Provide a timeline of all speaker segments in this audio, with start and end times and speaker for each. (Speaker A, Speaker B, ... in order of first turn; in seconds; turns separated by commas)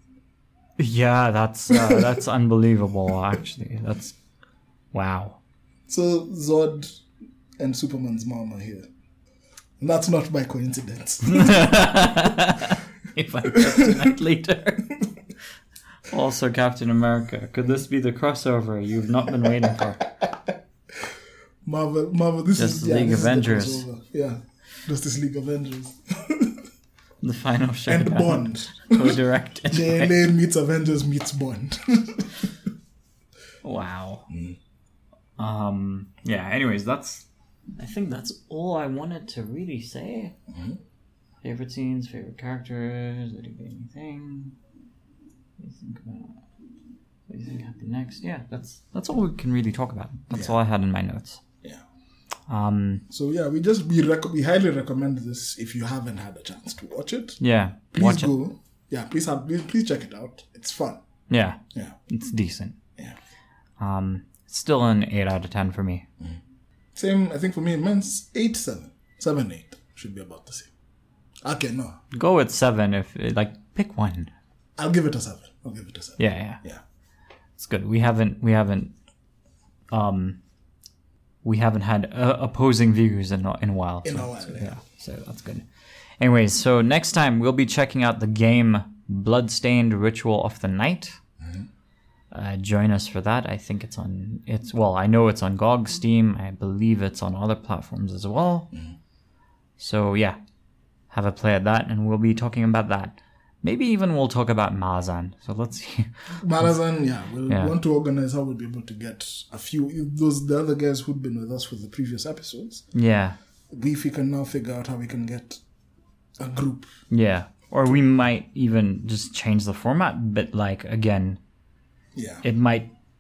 Speaker A: 0.8-4.2, Speaker B: 1.7-2.2, Speaker A: 4.9-5.4, Speaker B: 5.9-7.0, Speaker B: 7.6-8.9, Speaker B: 9.8-11.7, Speaker A: 11.2-14.9, Speaker B: 13.5-14.1, Speaker A: 16.1-20.1, Speaker B: 19.6-20.5, Speaker B: 21.6-26.6, Speaker A: 22.6-23.9, Speaker A: 27.2-30.1, Speaker B: 27.9-32.5, Speaker A: 33.6-34.3, Speaker B: 34.3-34.6, Speaker A: 35.4-40.4, Speaker B: 40.5-40.8, Speaker A: 41.4-44.6, Speaker A: 45.6-46.4, Speaker A: 47.3-51.4, Speaker B: 50.3-50.6, Speaker A: 52.5-53.0, Speaker B: 53.1-57.4, Speaker A: 57.4-58.3, Speaker B: 57.9-61.0, Speaker A: 61.3-62.8, Speaker A: 63.8-66.1, Speaker B: 67.0-70.7, Speaker B: 71.4-72.0, Speaker A: 72.1-74.3, Speaker B: 74.8-76.8, Speaker A: 76.2-76.6, Speaker A: 77.6-78.9, Speaker A: 79.9-80.4, Speaker A: 81.4-85.7, Speaker B: 84.0-84.8, Speaker A: 86.2-91.2, Speaker B: 91.4-91.7, Speaker A: 92.3-98.7, Speaker A: 99.8-100.4, Speaker A: 101.1-106.7, Speaker B: 106.4-112.8, Speaker A: 107.5-107.8, Speaker A: 112.9-113.4, Speaker B: 113.7-115.6, Speaker B: 116.4-116.9, Speaker A: 117.1-121.4, Speaker B: 122.2-122.4, Speaker A: 122.4-122.9